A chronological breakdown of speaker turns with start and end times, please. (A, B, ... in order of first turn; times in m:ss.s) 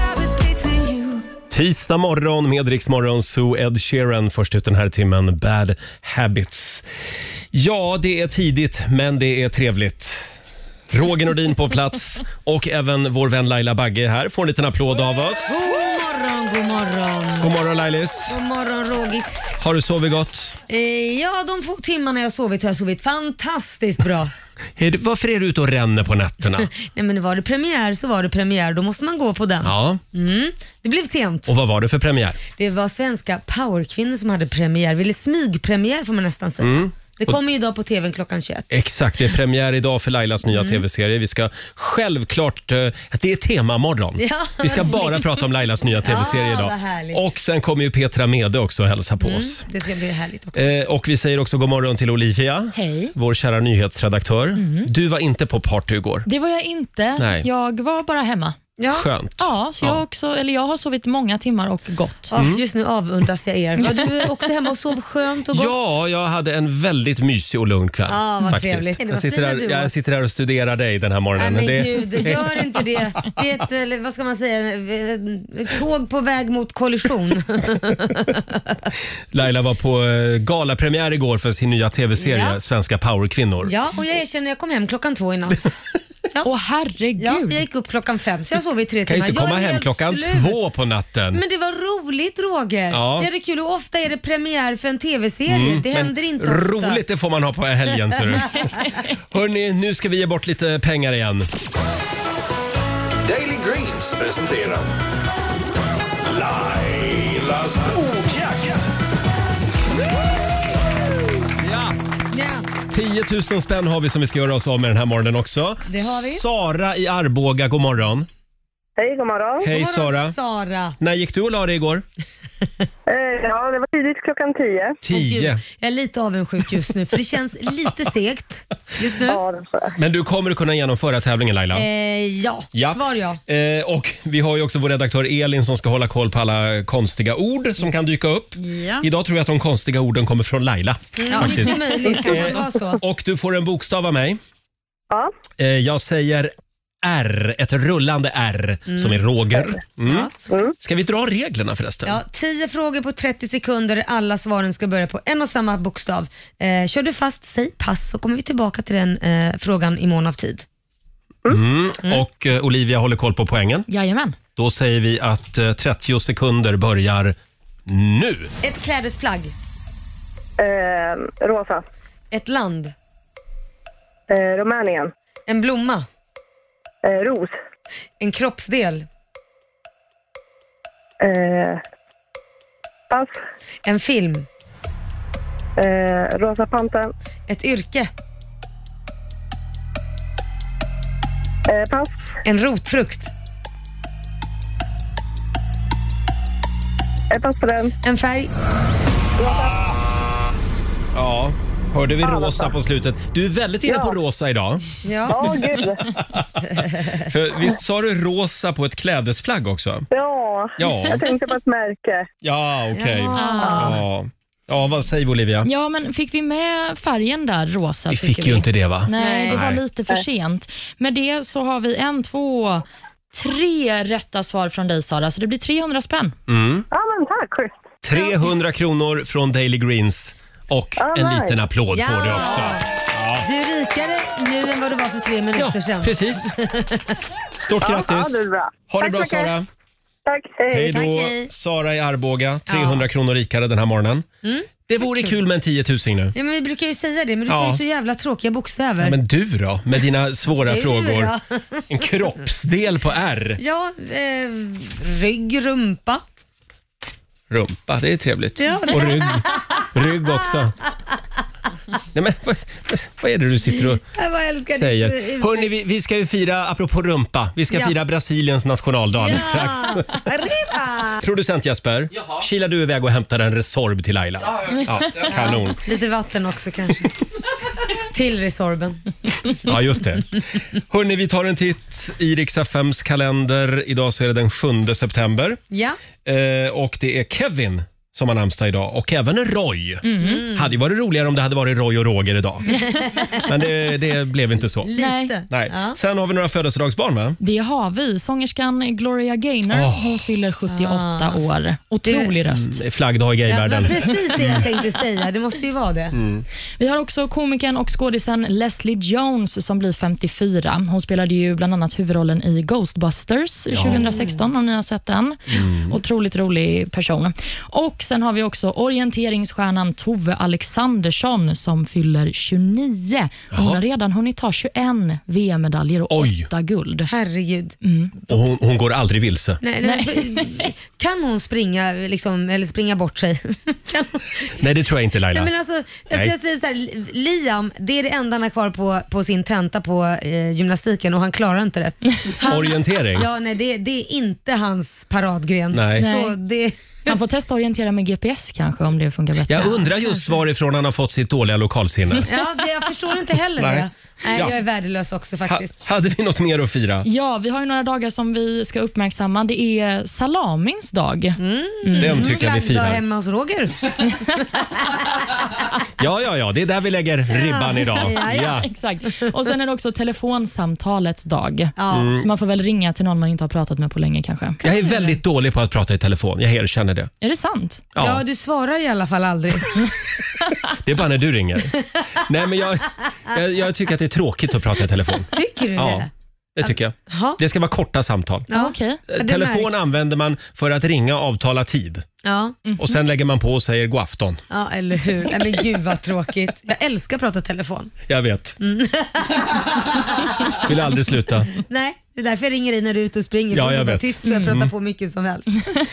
0:01.5-0:06.8 A
0:07.5-0:10.3 A
0:10.9-0:15.7 A
0:15.5-0:17.5 B
0:17.4-0:18.4 A
0:18.3-0:19.4 B
0:19.6-0:20.6 A
0:20.7-0:24.3 B
0:24.8-0:26.7 A
0:26.7-0:31.5 B
0:29.6-0:30.0 A
0:31.5-0:32.4 A
0:32.6-0:38.7 B
0:36.6-0:37.4 A
0:38.7-0:49.6 A
0:40.5-0:40.8 B
0:44.2-0:45.3 B
0:46.0-0:47.2 B
0:49.2-0:50.7 B
0:50.6-0:56.3 A
0:52.7-0:53.2 C
0:54.6-0:54.9 C
0:56.3-0:58.6 C
0:57.2-0:57.5 A
0:58.8-0:59.1 B
0:58.9-1:00.0 A
0:59.4-1:02.4 C
1:02.3-1:05.9 B
1:02.3-1:02.6 A
1:05.5-1:13.0 A
1:08.1-1:09.9 B
1:11.4-1:18.6 B
1:19.3-1:23.7 A
1:22.2-1:22.6 B
1:23.6-1:25.8 B
1:26.4-1:27.6 C
1:27.2-1:30.6 B
1:29.1-1:31.4 A
1:31.3-1:37.0 B
1:32.9-1:33.3 A
1:35.5-1:38.7 A
1:39.3-1:41.5 A
1:43.3-1:44.8 A
1:46.3-1:48.8 D
1:51.6-1:52.0 A
1:52.3-1:52.7 B
1:52.9-1:58.3 A
1:55.9-1:56.4 B
1:59.0-1:59.7 E
1:59.6-2:00.4 A
1:59.7-2:01.0 B
2:01.0-2:02.0 A
2:03.1-2:05.0 E
2:05.0-2:05.6 A
2:05.1-2:09.4 B
2:09.3-2:09.9 E
2:10.0-2:11.9 A
2:11.7-2:13.4 B
2:12.7-2:24.4 A
2:21.2-2:23.0 B
2:25.6-2:30.3 A
2:28.9-2:29.2 B
2:30.0-2:30.5 B
2:30.8-2:32.2 A
2:32.0-2:40.6 B
2:41.5-2:43.9 A
2:43.9-2:44.4 C
2:44.6-2:47.4 A
2:47.9-2:48.5 A
2:48.6-2:49.5 B
2:50.6-2:51.8 E
2:52.3-2:52.9 B
2:54.3-2:55.1 E
2:55.5-2:56.1 B
2:57.0-2:57.6 E
2:58.2-2:59.1 B
3:01.2-3:01.8 E
3:03.1-3:03.4 E
3:03.8-3:04.5 B
3:05.8-3:07.1 E
3:07.5-3:08.1 B
3:11.7-3:12.3 E
3:12.4-3:13.3 B
3:17.3-3:17.9 E
3:18.0-3:18.5 B
3:19.4-3:19.8 E
3:21.1-3:24.8 A
3:22.2-3:22.7 E
3:23.9-3:24.1 E
3:25.0-3:25.5 B
3:25.3-3:26.1 E
3:26.7-3:27.2 B
3:27.3-3:30.1 A
3:30.1-3:32.3 E
3:30.8-3:31.3 A
3:32.4-3:35.7 A
3:32.9-3:34.0 B
3:33.4-3:34.0 C
3:35.6-3:46.4 C
3:38.1-3:39.8 A
3:39.2-3:39.6 B
3:46.5-3:46.9 A
3:46.9-3:47.8 E
3:48.0-3:53.5 A
3:51.0-3:51.6 E
3:51.9-3:52.9 B
3:53.4-3:57.2 B
3:55.6-3:56.5 A
3:57.6-3:59.7 A
3:57.8-3:59.5 E
4:00.3-4:01.0 E
4:00.7-4:04.3 A
4:00.9-4:01.5 B
4:02.7-4:03.0 B
4:04.4-4:05.3 B
4:04.9-4:06.4 A
4:06.4-4:09.2 B
4:07.5-4:07.8 A
4:09.0-4:11.3 A
4:10.6-4:11.8 B
4:11.9-4:13.6 A
4:13.6-4:16.2 B
4:17.5-4:20.8 A
4:18.6-4:20.7 B
4:22.1-4:24.0 A
4:23.8-4:25.7 B
4:24.7-4:30.2 A
4:29.2-4:31.2 B
4:31.2-4:35.8 A
4:35.3-4:37.1 B
4:38.1-4:39.0 B
4:39.6-4:40.3 A
4:40.9-4:45.6 A
4:45.7-4:46.0 B
4:46.2-4:52.7 A
4:50.0-4:50.4 C
4:50.2-4:50.7 B
4:52.7-4:53.4 C
4:52.8-4:53.5 B
4:53.4-4:54.9 A
4:54.8-4:56.0 B
4:55.0-4:55.3 C
4:55.5-4:57.4 A
4:57.4-5:02.8 C
4:59.7-5:00.2 A
5:00.7-5:01.4 B
5:02.1-5:02.3 B
5:02.5-5:04.7 A
5:03.5-5:06.2 B
5:06.1-5:06.4 A
5:06.8-5:27.1 C
5:13.7-5:14.1 A
5:13.9-5:14.4 B
5:15.5-5:16.0 A
5:23.5-5:23.8 A
5:26.1-5:26.5 A
5:27.1-5:27.8 B
5:27.8-5:28.1 C
5:28.3-5:29.6 A
5:29.6-5:34.6 B
5:29.8-5:30.7 C
5:34.6-5:35.5 A
5:35.3-5:47.1 B
5:42.5-5:43.3 A
5:45.7-5:46.1 A
5:46.0-5:46.4 C
5:47.1-5:49.9 C
5:49.5-5:52.3 A
5:52.3-5:55.7 B
5:53.6-5:54.6 A
5:55.5-5:57.1 A
5:57.0-6:02.4 C
6:01.4-6:04.4 B
6:02.0-6:03.0 A
6:06.0-6:08.7 A
6:07.4-6:08.7 B
6:08.3-6:15.1 C
6:11.8-6:12.1 B
6:11.9-6:12.2 A
6:14.6-6:17.1 A
6:17.2-6:17.9 C
6:18.0-6:18.2 A
6:18.0-6:19.8 B
6:20.8-6:28.5 A
6:25.3-6:26.1 B
6:26.6-6:27.4 B
6:28.5-6:29.8 B
6:28.5-6:29.0 C
6:29.1-6:32.0 A
6:32.2-6:32.6 B
6:32.8-6:34.4 A
6:34.5-6:37.9 B
6:38.1-6:38.6 A
6:38.6-6:40.7 B
6:40.6-6:41.5 A
6:41.5-6:45.7 B
6:43.5-6:44.7 A